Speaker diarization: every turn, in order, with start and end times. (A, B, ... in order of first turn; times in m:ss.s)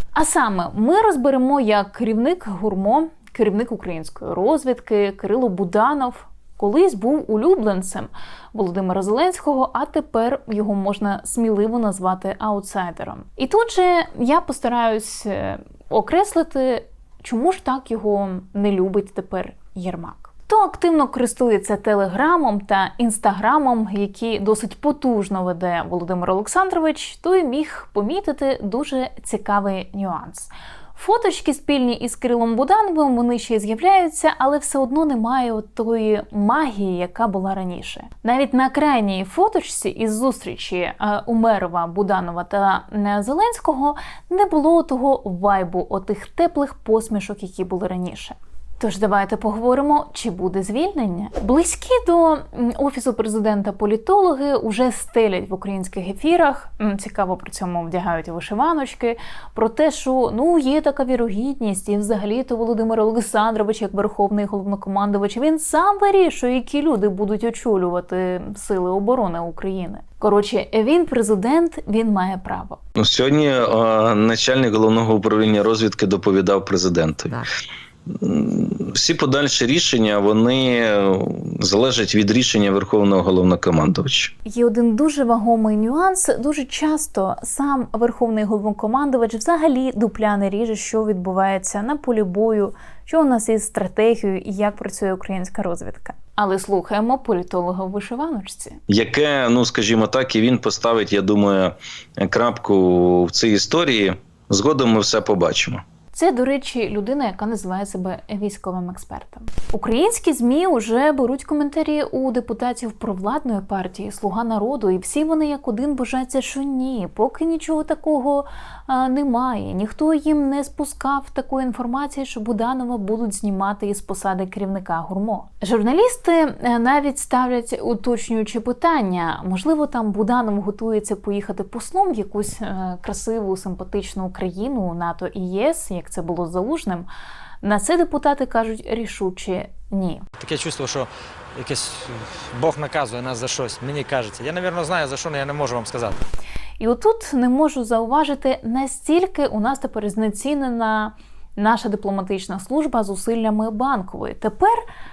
0:00.1-1:12.8 A
1:13.0-1:17.5 B
1:18.1-1:24.3 B
1:24.4-1:38.8 A
1:38.9-1:45.8 B
1:46.1-2:17.1 A
2:17.6-2:20.2 A
2:20.4-2:26.2 C
2:26.8-2:34.8 A